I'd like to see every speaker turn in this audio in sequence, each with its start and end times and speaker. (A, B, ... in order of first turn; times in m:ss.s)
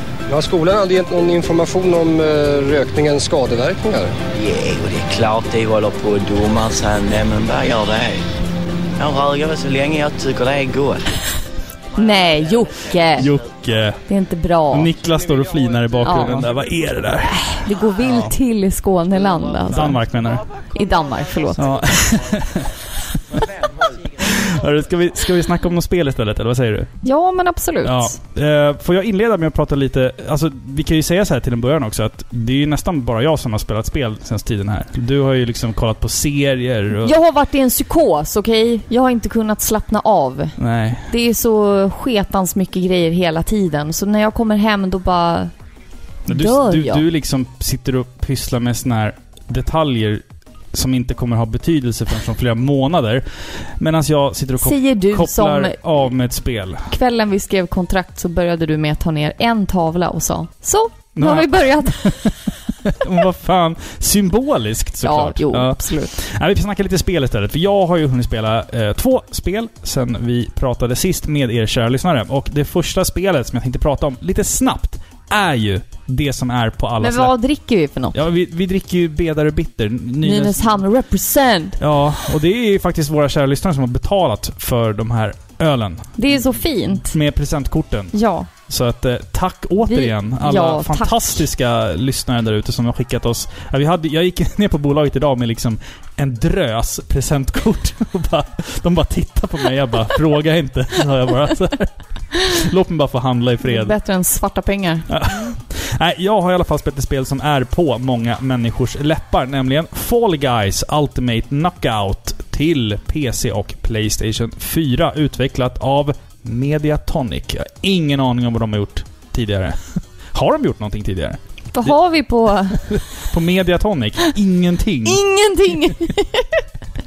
0:00.3-0:04.2 A
0:04.3-0:08.2 B
0:09.0-0:11.1 B
0:11.9-0:13.3 C
0:13.1-0:14.0 D
0:14.0-0:14.9 C
0:14.7-0:17.5 D
0:16.0-0:16.4 C
0:17.2-0:20.0 C
0:18.0-0:18.3 D
0:19.7-0:20.4 D
0:20.7-0:22.0 C
0:21.6-0:22.7 D
0:24.2-0:26.9 D
0:27.0-0:28.2 C
0:27.8-0:37.1 D
0:37.0-0:40.6 C
0:40.6-0:41.1 D
0:41.1-0:45.5 C
0:46.3-0:56.9 D
0:46.3-0:47.0 C
0:54.6-0:55.8 C
0:56.9-1:02.3 C
1:01.2-1:17.3 D
1:05.0-1:06.1 C
1:17.0-1:18.2 C
1:18.1-1:20.8 D
1:20.2-1:21.8 C
1:21.8-1:28.1 D
1:26.2-1:27.1 C
1:28.1-1:28.5 C
1:28.7-1:43.9 D
1:29.8-1:31.4 C
1:43.6-1:45.1 C
1:45.1-2:01.9 D
2:01.7-2:03.0 C
2:02.8-2:05.2 D
2:05.0-2:06.6 C